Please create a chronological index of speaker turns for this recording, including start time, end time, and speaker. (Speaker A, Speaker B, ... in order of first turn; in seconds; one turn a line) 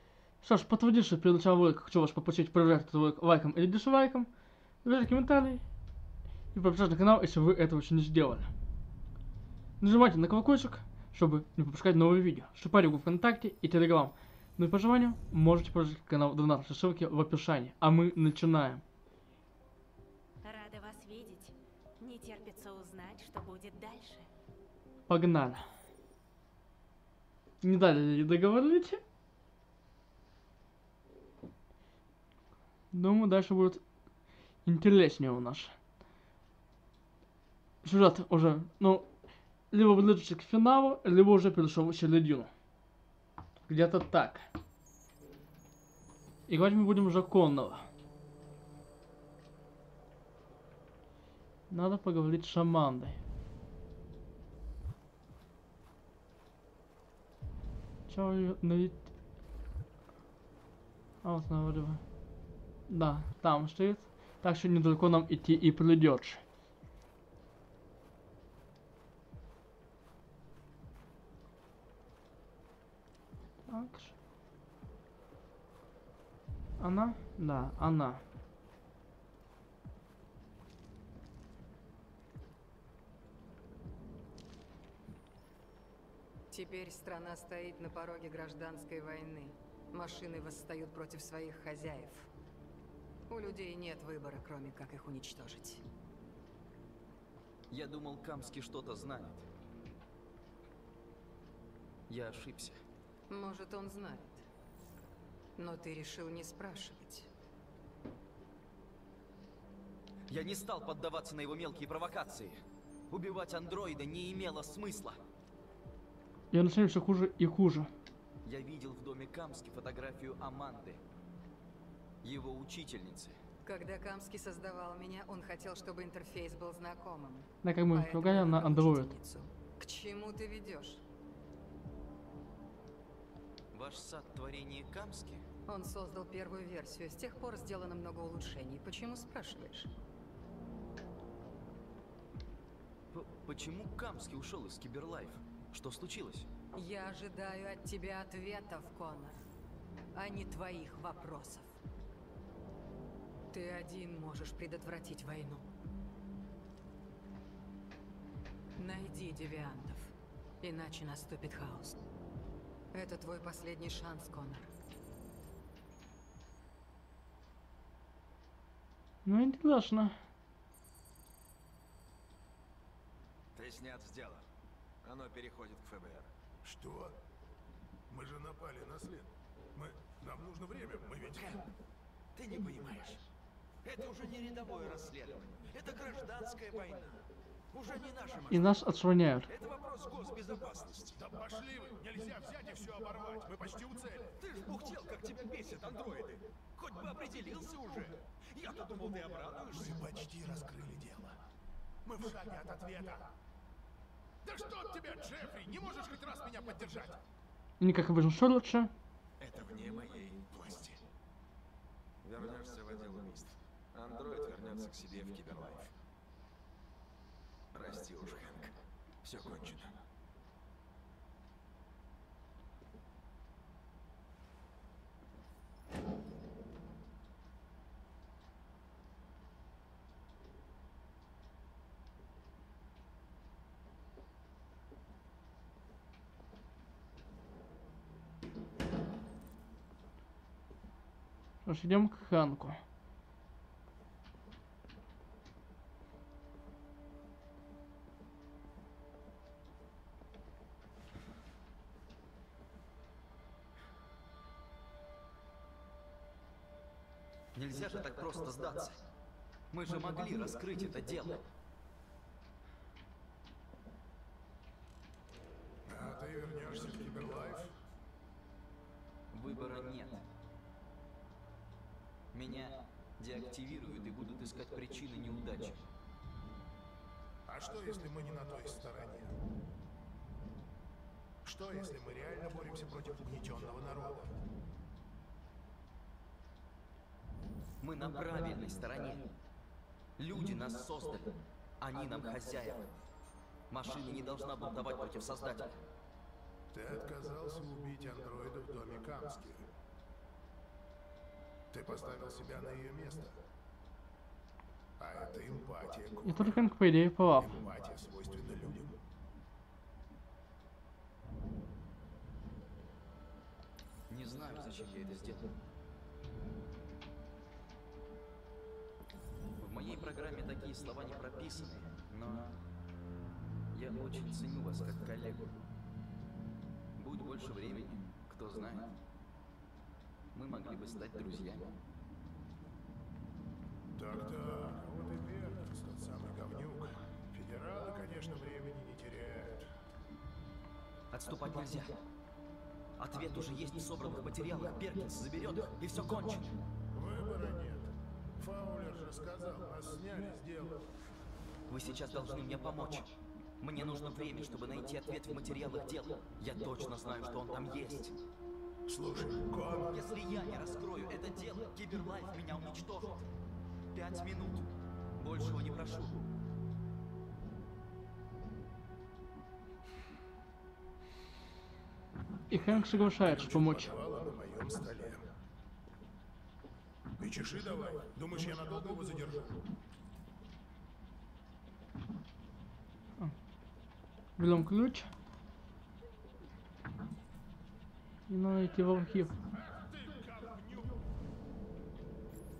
Speaker A: 0.4-4.3
Speaker A: 4.8-5.6
Speaker A: 6.5-8.5
Speaker A: 9.8-18.8
Speaker B: 20.4-24.3
Speaker A: 25.1-25.7
Speaker A: 27.6-29.0
Speaker A: 32.9-33.8
Speaker A: 34.6-35.8
Speaker A: 37.8-39.1
Speaker A: 39.7-42.5
Speaker A: 43.7-44.5
Speaker A: 46.5-47.9
Speaker A: 51.7-53.2
Speaker A: 58.1-59.1
Speaker A: 61.2-62.0
Speaker A: 62.9-66.4
Speaker A: 73.7-74.1
Speaker A: 76.8-78.2
Speaker C: 86.5-92.3
Speaker C: 93.3-95.8
Speaker D: 97.7-99.5
Speaker D: 102.1-102.8
Speaker C: 103.3-104.5
Speaker C: 105.6-107.3
Speaker D: 110.3-115.2
Speaker A: 116.5-117.9
Speaker D: 118.4-121.0
Speaker D: 122.2-123.4
Speaker C: 123.6-131.0
Speaker A: 127.6-129.1
Speaker D: 133.7-135.4
Speaker C: 135.7-139.9
Speaker D: 143.1-146.5
Speaker C: 146.7-149.4
Speaker C: 150.1-151.8
Speaker C: 153.5-155.7
Speaker C: 158.8-162.0
Speaker C: 162.9-164.7
Speaker A: 169.2-170.2
Speaker E: 173.6-174.4
Speaker E: 175.0-176.3
Speaker F: 176.6-177.2
Speaker F: 178.1-181.6
Speaker E: 182.4-183.2
Speaker E: 183.8-187.2
Speaker E: 187.7-188.8
Speaker A: 188.5-189.5
Speaker E: 189.5-191.2
Speaker F: 191.2-194.3
Speaker E: 194.4-200.1
Speaker F: 199.9-201.4
Speaker F: 202.1-203.3
Speaker F: 204.4-207.2
Speaker A: 207.8-208.9
Speaker E: 209.4-211.0
Speaker E: 212.2-215.9
Speaker E: 217.7-218.7
Speaker E: 219.2-220.0
Speaker A: 241.6-242.8
Speaker D: 257.6-259.0
Speaker D: 259.7-261.4
Speaker F: 265.9-267.7
Speaker D: 269.3-270.3
Speaker D: 272.3-275.9
Speaker F: 277.5-279.4
Speaker F: 281.4-284.4
Speaker D: 287.8-289.3
Speaker D: 290.2-292.9
Speaker D: 293.7-295.8
Speaker F: 296.7-299.7
Speaker F: 301.7-303.4
Speaker F: 305.0-306.7
Speaker A: 306.2-307.5
Speaker F: 307.4-309.0
Speaker D: 314.1-315.5
Speaker D: 319.6-322.6
Speaker D: 323.7-325.5
Speaker D: 327.0-329.0
Speaker D: 330.3-331.8
Speaker F: 334.0-339.7
Speaker D: 341.1-342.0
Speaker D: 343.0-346.6
Speaker F: 346.9-350.9
Speaker D: 351.7-358.2
Speaker F: 358.9-359.9
Speaker D: 359.9-363.3
Speaker D: 363.9-366.3
Speaker A: 372.5-374.0
Speaker F: 373.2-375.3
Speaker F: 377.2-379.6
Speaker A: 384.4-385.1
Speaker A: 388.3-389.3
Speaker F: 389.7-391.0